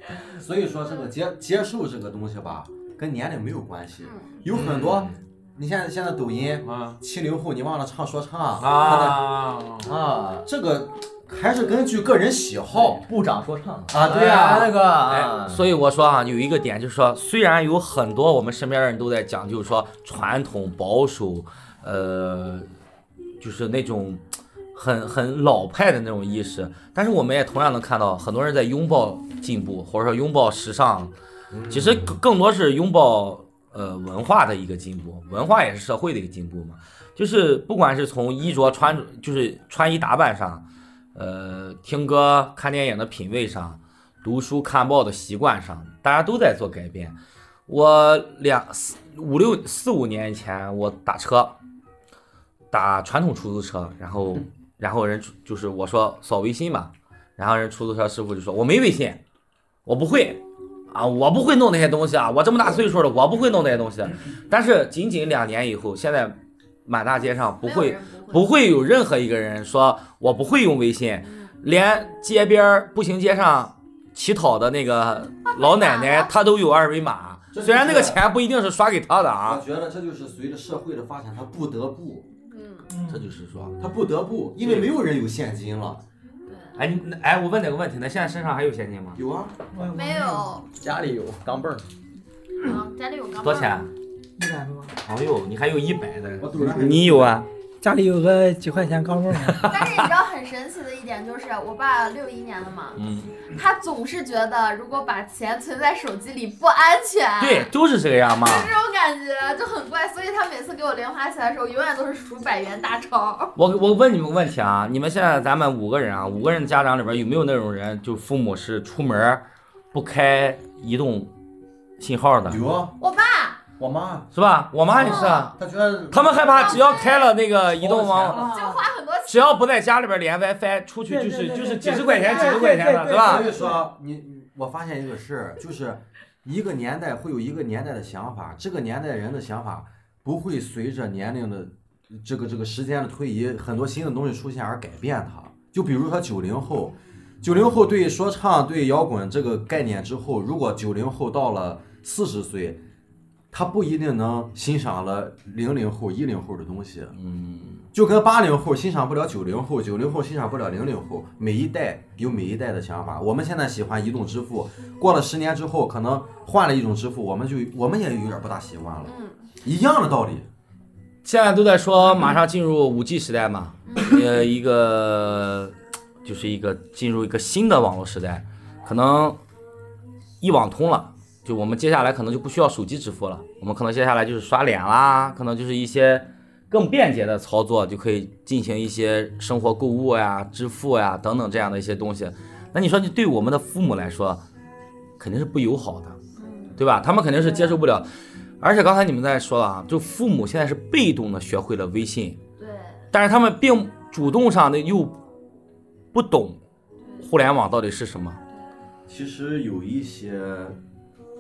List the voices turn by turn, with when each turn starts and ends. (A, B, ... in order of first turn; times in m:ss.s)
0:00.4-0:09.9 A
0:04.0-0:04.4 B
0:04.5-0:05.1 C
0:08.6-0:09.5 D
0:09.8-0:10.4 C
0:10.4-0:13.0 A
0:12.8-0:15.6 C
0:13.9-0:14.7 A
0:14.0-0:22.7 D
0:23.4-0:24.2 D
0:24.7-0:31.1 D
0:31.5-0:32.0 A
0:31.7-0:40.6 D
0:41.2-0:51.6 D
0:52.7-0:59.2 D
0:59.9-1:19.6 D
1:07.6-1:08.6 B
1:11.2-1:11.5 B
1:15.5-1:16.3 B
1:17.5-1:18.2 A
1:19.4-1:22.3 A
1:22.5-1:22.9 B
1:22.9-1:23.2 E
1:23.1-1:23.8 D
1:23.8-1:26.0 A
1:24.6-1:24.9 D
1:26.5-1:26.8 B
1:26.8-1:29.2 D
1:29.2-1:29.6 A
1:29.7-1:30.5 E
1:29.9-1:30.7 B
1:30.8-1:31.8 C
1:32.6-1:33.9 B
1:33.4-1:33.9 D
1:34.4-1:35.0 E
1:35.0-1:37.5 D
1:36.4-1:37.4 A
1:37.8-1:39.8 E
1:39.4-1:40.0 D
1:39.6-1:47.7 B
1:43.0-1:43.3 D
1:47.4-1:48.7 D
1:48.4-1:53.6 B
1:53.6-2:01.3 D
2:02.0-2:02.6 D
2:02.5-2:03.0 A
2:03.0-2:03.6 B
2:03.8-2:04.3 A
2:04.3-2:05.6 D
2:04.9-2:07.0 A
2:05.0-2:05.5 B
2:06.1-2:08.5 D
2:06.6-2:07.3 B
2:07.8-2:08.6 A
2:08.3-2:09.4 B
2:08.3-2:08.8 E
2:09.3-2:13.5 D
2:11.1-2:13.8 E
2:12.1-2:12.6 B
2:13.2-2:32.8 A
2:33.5-2:37.2 A
2:37.2-2:37.8 D
2:37.9-2:49.1 A
2:49.0-2:49.4 B
2:49.6-2:50.5 A
2:51.2-2:59.4 D
2:53.9-2:54.3 B
3:00.4-3:14.4 D
3:15.2-3:16.2 D
3:16.4-3:16.8 B
3:16.8-3:18.1 D
3:17.3-3:17.8 B
3:18.6-3:22.4 D
3:22.6-3:23.1 B
3:23.1-3:25.2 D
3:26.1-3:26.6 D
3:27.0-3:27.3 B
3:27.2-3:28.4 D
3:29.1-3:30.8 A